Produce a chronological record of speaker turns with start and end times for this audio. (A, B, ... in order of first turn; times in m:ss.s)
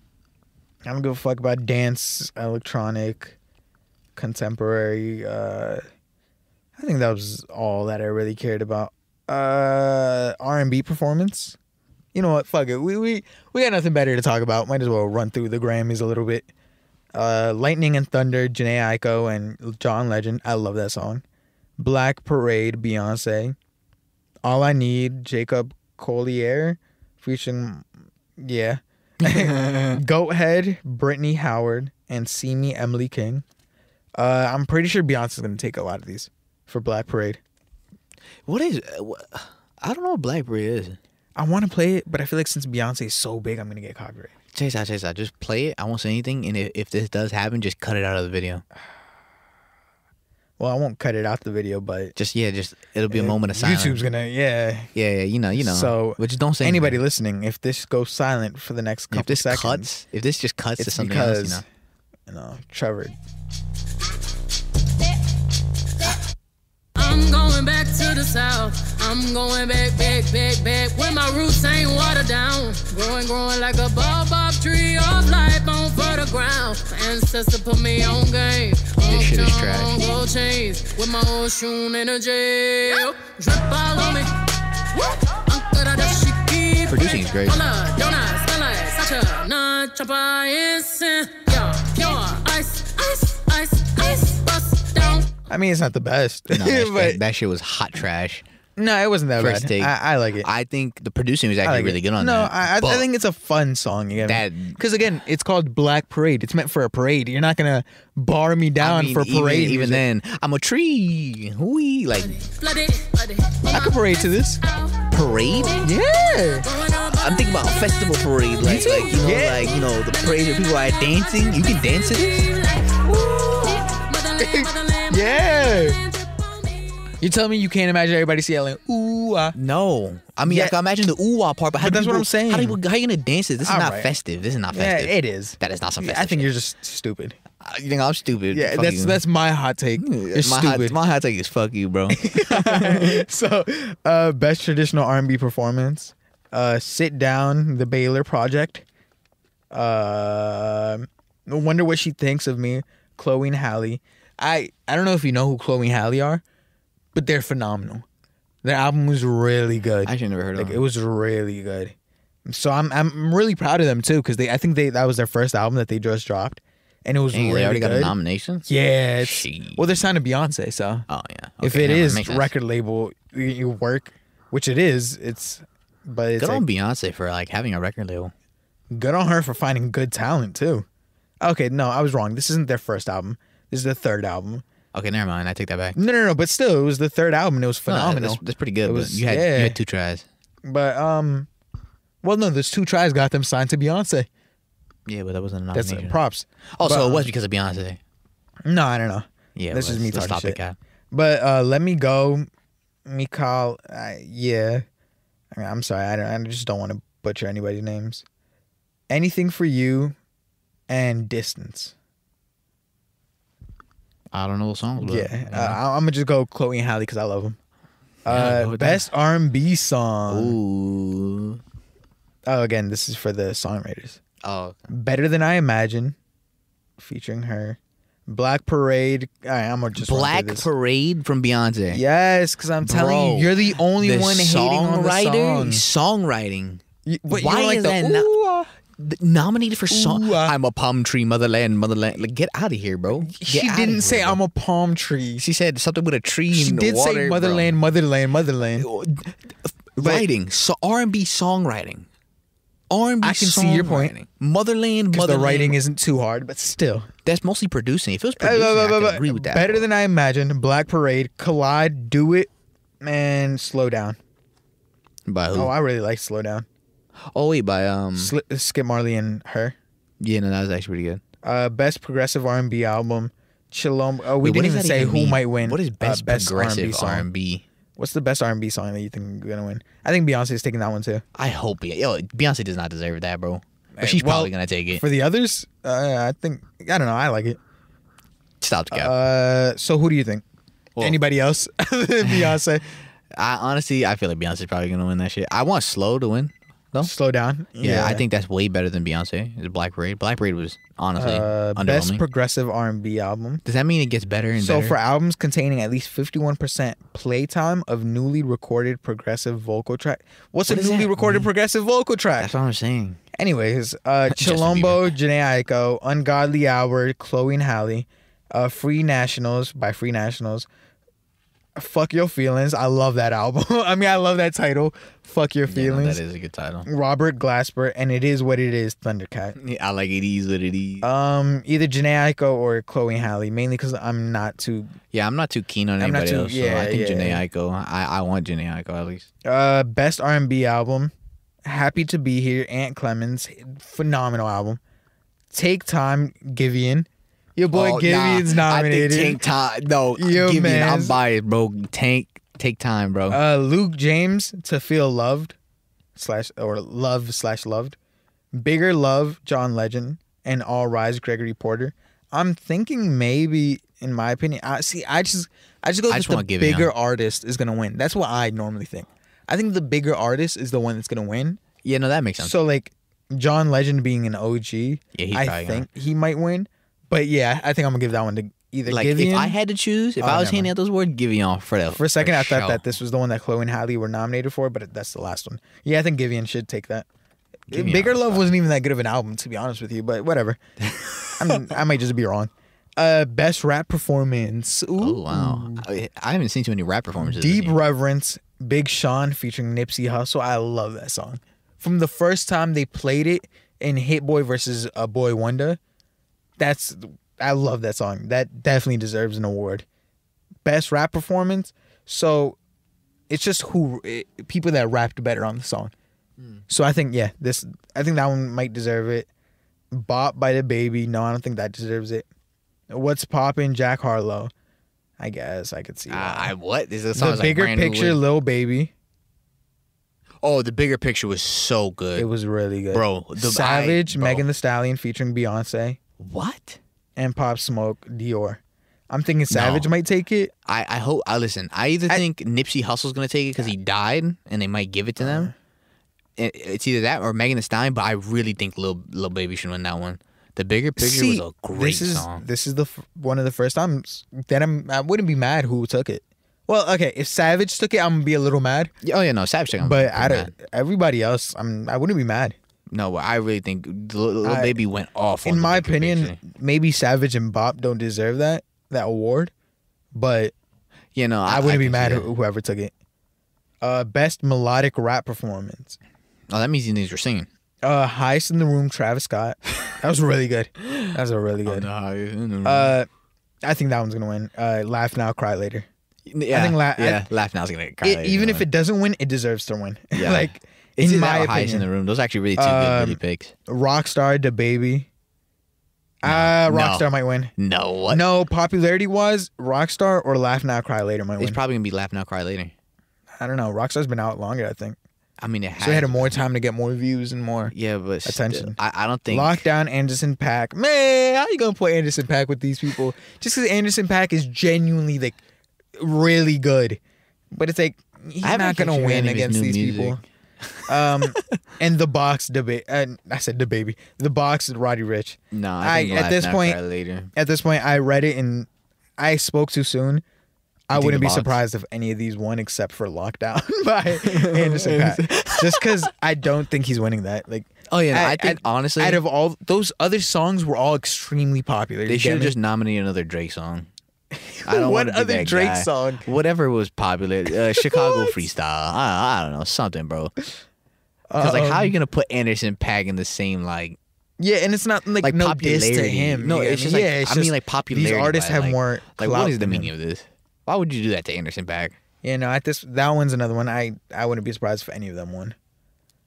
0:00.8-0:03.4 A
0:04.2-0:05.8 A
0:06.8-0:11.6 A
0:12.1-0:16.5 A
0:17.1-0:21.2 A
0:21.8-0:23.6 A
0:24.4-0:33.4 A
0:29.2-0:30.0 B
0:34.2-0:37.4 A
0:38.4-0:41.0 B
0:41.4-0:44.3 A
0:44.5-0:48.6 B
0:50.6-0:52.1 A
0:52.2-0:54.0 B
0:53.1-0:54.9 A
0:54.9-0:57.0 B
0:55.6-0:59.9 A
0:59.1-1:01.6 B
1:00.8-1:01.6 A
1:02.3-1:03.2 A
1:07.0-1:24.4 C
1:19.0-1:20.1 B
1:24.9-1:35.3 C
1:26.9-1:27.6 B
1:35.5-1:37.2 A
1:36.5-1:38.4 B
1:38.8-1:40.5 A
1:39.4-1:43.0 B
1:41.6-1:50.0 A
1:44.2-1:44.8 B
1:48.8-1:52.4 B
1:52.2-2:06.4 C
1:53.6-1:54.6 A
1:55.1-1:55.8 B
1:55.8-1:56.6 A
1:57.2-2:02.5 B
1:58.6-1:59.7 A
2:05.1-2:06.0 A
2:07.2-2:09.6 A
2:09.5-2:16.5 B
2:10.4-2:10.8 A
2:11.8-2:12.8 A
2:13.6-2:14.1 A
2:14.7-2:17.4 A
2:17.6-2:19.2 B
2:18.5-2:21.0 A
2:20.0-2:23.2 B
2:22.1-2:28.8 A
2:29.7-2:36.4 A
2:37.1-2:38.0 A
2:38.6-2:51.1 A
2:40.0-2:40.8 B
2:47.3-2:48.6 B
2:49.2-2:49.8 B
2:51.1-2:52.5 B
2:51.6-2:56.6 A
2:56.4-2:58.3 B
2:58.9-3:00.8 A
3:01.4-3:04.6 A
3:04.9-3:06.0 B
3:06.0-3:09.8 A
3:07.9-3:10.2 B
3:10.6-3:11.5 A
3:12.2-3:14.3 A
3:15.1-3:16.2 B
3:15.7-3:17.3 A
3:16.8-3:18.0 B
3:18.6-3:20.6 A
3:19.6-3:20.8 B
3:21.1-3:22.5 A
3:23.0-3:24.8 A
3:25.5-3:28.2 A
3:29.1-3:30.2 A
3:30.9-3:31.9 A
3:34.3-3:35.8 B
3:35.0-3:37.6 A
3:38.2-3:40.6 A
3:38.3-3:39.1 B
3:40.3-3:41.6 B
3:42.5-3:44.2 A
3:44.4-3:44.9 B
3:44.9-3:46.2 A
3:47.0-3:50.7 A
3:50.0-3:52.0 B
3:51.9-3:55.8 A
3:52.8-3:58.3 B
3:57.0-3:58.7 A
3:59.0-4:04.4 B
3:59.9-4:00.5 A
4:03.2-4:05.4 A
4:05.4-4:07.7 B
4:06.5-4:08.9 A
4:08.8-4:12.0 B
4:10.0-4:10.3 A
4:12.9-4:15.8 B
4:13.2-4:14.1 A
4:15.1-4:17.1 A
4:17.2-4:19.8 B
4:18.4-4:22.5 A
4:23.0-4:24.2 A
4:25.3-4:25.7 B
4:25.5-4:26.7 A
4:27.3-4:28.3 B
4:28.2-4:29.8 A
4:30.2-4:31.2 B
4:31.4-4:37.3 A
4:34.4-4:37.6 B
4:38.0-4:41.2 A
4:41.3-4:45.0 B
4:44.0-4:47.6 A
4:48.6-4:49.1 B
4:48.9-4:50.4 A
4:51.0-4:52.9 A
4:52.2-4:52.6 B
4:53.3-4:57.1 B
4:57.0-4:58.2 A
4:57.8-5:02.2 B
5:01.2-5:03.6 A
5:03.6-5:05.0 B
5:04.6-5:12.5 A
5:10.7-5:11.5 B
5:12.4-5:13.2 B
5:13.3-5:20.7 A
5:14.3-5:15.1 B
5:21.8-5:26.2 A
5:25.7-5:26.9 B
5:26.8-5:29.6 A
5:29.6-5:31.1 B
5:31.0-5:34.9 A
5:35.1-5:39.3 B
5:36.0-5:37.4 A
5:39.4-5:41.1 A
5:41.6-5:44.8 A
5:45.5-5:49.4 A
5:47.7-5:53.4 B
5:50.2-5:51.2 A
5:53.3-5:55.6 A
5:56.2-5:58.0 A
5:58.5-6:11.6 A
6:06.1-6:06.9 B
6:11.8-6:12.6 B
6:12.4-6:19.5 A
6:15.1-6:15.9 B
6:18.8-6:22.8 B
6:20.2-6:20.7 A
6:21.9-6:27.1 A
6:27.7-6:28.5 B
6:27.7-6:30.6 A
6:30.8-6:31.7 B
6:31.4-6:35.8 A
6:35.0-6:37.8 B
6:37.2-6:45.8 A
6:46.6-6:49.8 A
6:50.6-6:52.6 A
6:53.3-6:55.9 A
6:56.7-6:59.3 A
6:59.9-7:02.3 A
7:02.9-7:04.5 A
7:05.2-7:06.5 A
7:06.1-7:08.2 B
7:07.1-7:08.9 A
7:10.4-7:12.3 B
7:12.1-7:16.0 A
7:12.9-7:14.4 B
7:16.2-7:16.8 B
7:17.2-7:20.5 A
7:19.5-7:19.9 B
7:20.6-7:25.5 B
7:25.2-7:25.5 A
7:26.4-7:32.4 B
7:31.0-7:38.9 A
7:39.0-7:40.5 B
7:39.8-7:42.6 A
7:42.9-7:46.4 B
7:44.4-7:44.8 A
7:45.4-7:49.5 A
7:50.1-7:50.5 A
7:51.1-7:52.3 B
7:51.4-7:52.9 A
7:53.8-7:56.0 A
7:56.5-7:57.5 B
7:57.8-8:01.9 A
8:01.6-8:02.9 B
8:02.6-8:03.1 A
8:03.6-8:05.9 A
8:06.3-8:08.7 B
8:06.5-8:07.3 A
8:08.0-8:11.9 A
8:10.1-8:13.5 B
8:12.6-8:15.1 A
8:16.2-8:17.5 A
8:16.2-8:18.2 B
8:18.1-8:21.6 A
8:21.4-8:22.7 B
8:23.4-8:25.0 A
8:25.4-8:26.3 B
8:25.8-8:27.7 A
8:27.7-8:29.6 B
8:28.2-8:35.4 A
8:36.0-8:37.0 A
8:37.5-8:40.2 A
8:38.4-8:41.3 B
8:40.9-8:46.8 A
8:45.5-8:47.3 B
8:47.3-8:50.2 A
8:50.9-9:02.5 A
8:50.9-8:51.6 B
8:54.2-8:56.0 B
8:57.9-8:59.2 B
9:02.0-9:03.9 B
9:04.3-9:06.2 A
9:04.6-9:10.3 B
9:07.8-9:08.4 A
9:11.3-9:11.9 A
9:11.4-9:14.0 B
9:14.4-9:19.9 A
9:15.2-9:22.0 B
9:22.2-9:25.6 A